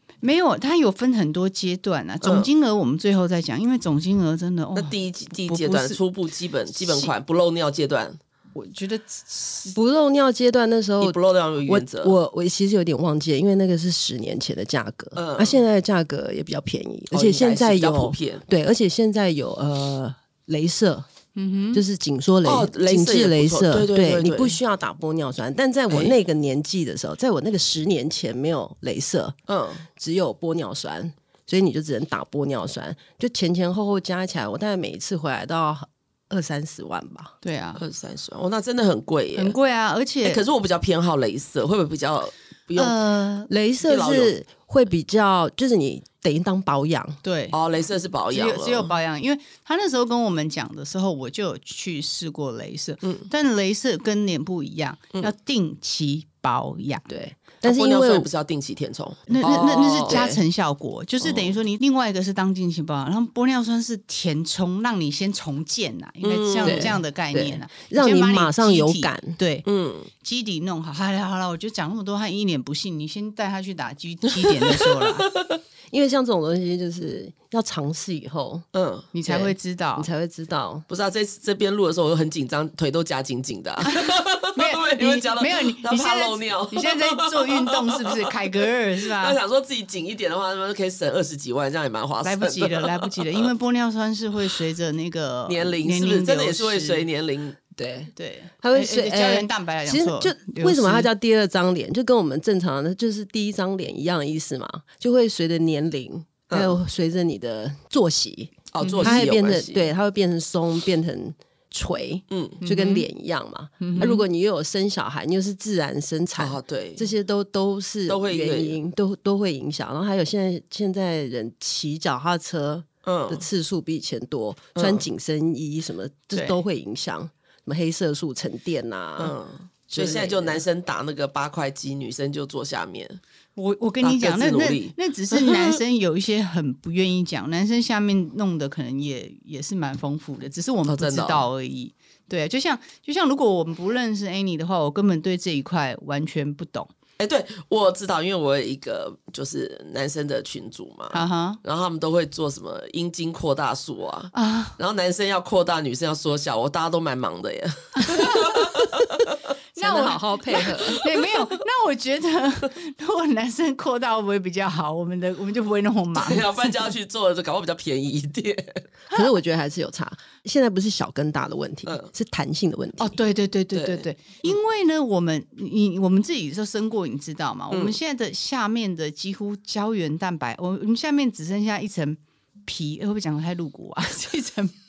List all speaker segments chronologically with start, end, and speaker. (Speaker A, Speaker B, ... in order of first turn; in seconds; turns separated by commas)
Speaker A: 0.2-6.0, Speaker B: 2.2-2.5, Speaker B: 4.8-8.2, Speaker A: 6.8-7.1, Speaker A: 8.5-9.8, Speaker C: 9.7-21.1, Speaker B: 11.0-12.1, Speaker B: 15.2-15.6, Speaker B: 17.1-18.4, Speaker A: 21.4-21.8, Speaker C: 21.7-29.4, Speaker B: 22.4-24.6, Speaker B: 25.9-26.1, Speaker B: 29.5-29.9, Speaker C: 29.9-37.3, Speaker A: 37.4-37.8, Speaker B: 37.8-39.5, Speaker A: 39.4-40.4, Speaker B: 40.2-43.0, Speaker A: 42.8-43.5, Speaker C: 43.5-47.2, Speaker B: 43.8-44.3, Speaker A: 47.2-47.6, Speaker B: 47.5-48.9, Speaker A: 48.3-57.0, Speaker B: 53.0-53.3, Speaker C: 57.1-58.3, Speaker B: 57.6-60.3, Speaker A: 59.3-69.7, Speaker C: 60.1-60.4, Speaker B: 61.2-61.5, Speaker B: 66.2-67.0, Speaker C: 66.6-69.4, Speaker B: 69.7-70.1, Speaker A: 70.2-75.3, Speaker B: 74.4-75.6, Speaker C: 75.9-78.7, Speaker B: 78.7-79.1, Speaker A: 79.1-80.1, Speaker C: 79.3-80.9, Speaker B: 80.9-88.4, Speaker A: 83.8-89.4, Speaker B: 89.0-93.5, Speaker A: 92.2-97.0, Speaker B: 95.5-97.6, Speaker C: 97.8-129.4, Speaker A: 98.2-101.1, Speaker B: 106.5-106.8, Speaker B: 108.7-109.9, Speaker A: 108.8-109.2, Speaker B: 112.3-112.6, Speaker A: 112.6-113.1, Speaker A: 113.8-114.2, Speaker B: 116.4-117.1, Speaker B: 118.1-118.8, Speaker B: 123.0-123.4, Speaker B: 124.8-125.0, Speaker A: 126.3-126.6, Speaker B: 129.2-133.2, Speaker C: 129.9-130.6, Speaker A: 133.6-146.9, Speaker B: 134.0-135.8, Speaker B: 140.9-141.4, Speaker B: 147.2-159.3, Speaker A: 151.1-151.6, Speaker A: 154.3-154.8, Speaker A: 157.9-158.9, Speaker C: 159.8-161.0, Speaker A: 159.8-166.8, Speaker B: 166.1-168.8, Speaker C: 169.1-173.2, Speaker A: 173.0-184.8, Speaker B: 173.7-174.5, Speaker B: 177.7-178.0